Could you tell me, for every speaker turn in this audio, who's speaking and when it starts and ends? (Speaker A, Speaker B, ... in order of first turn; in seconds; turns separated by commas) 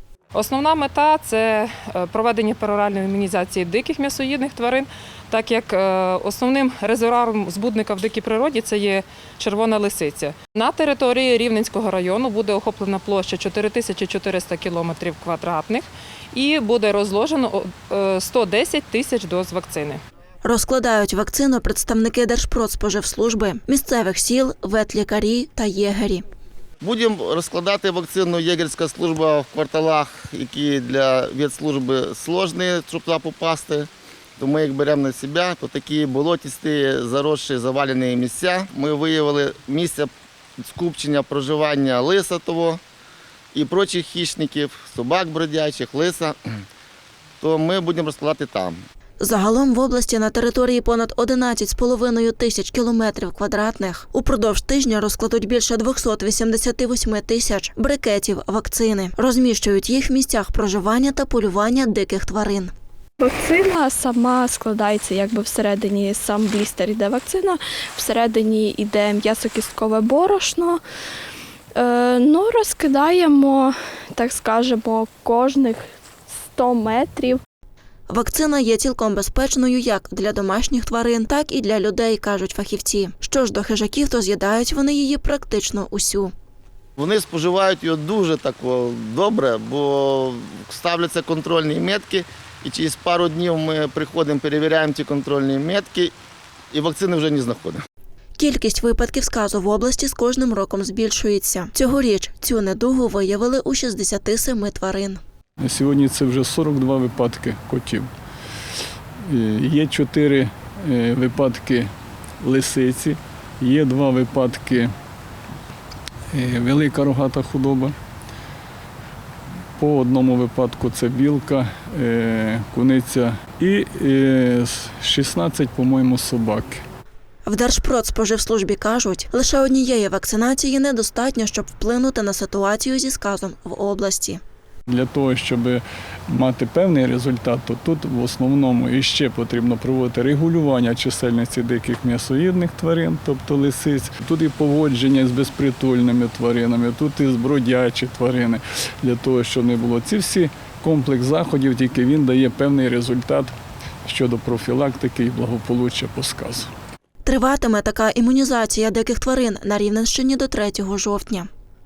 Speaker A: 0.3-20.0, Speaker B: 20.4-26.2, Speaker C: 26.8-42.8, Speaker C: 43.5-46.4, Speaker C: 47.4-48.8, Speaker B: 49.2-62.7, Speaker D: 63.2-70.8, Speaker D: 71.8-75.9, Speaker D: 76.5-77.4, Speaker B: 78.1-86.3, Speaker C: 87.0-96.1, Speaker C: 96.7-97.8, Speaker B: 98.4-105.2, Speaker E: 105.6-108.1, Speaker E: 109.3-111.9, Speaker E: 112.4-114.9, Speaker E: 116.3-117.9, Speaker E: 119.8-126.8, Speaker B: 127.5-134.4, Speaker E: 134.9-153.5, Speaker E: 154.1-156.7, Speaker B: 157.3-161.5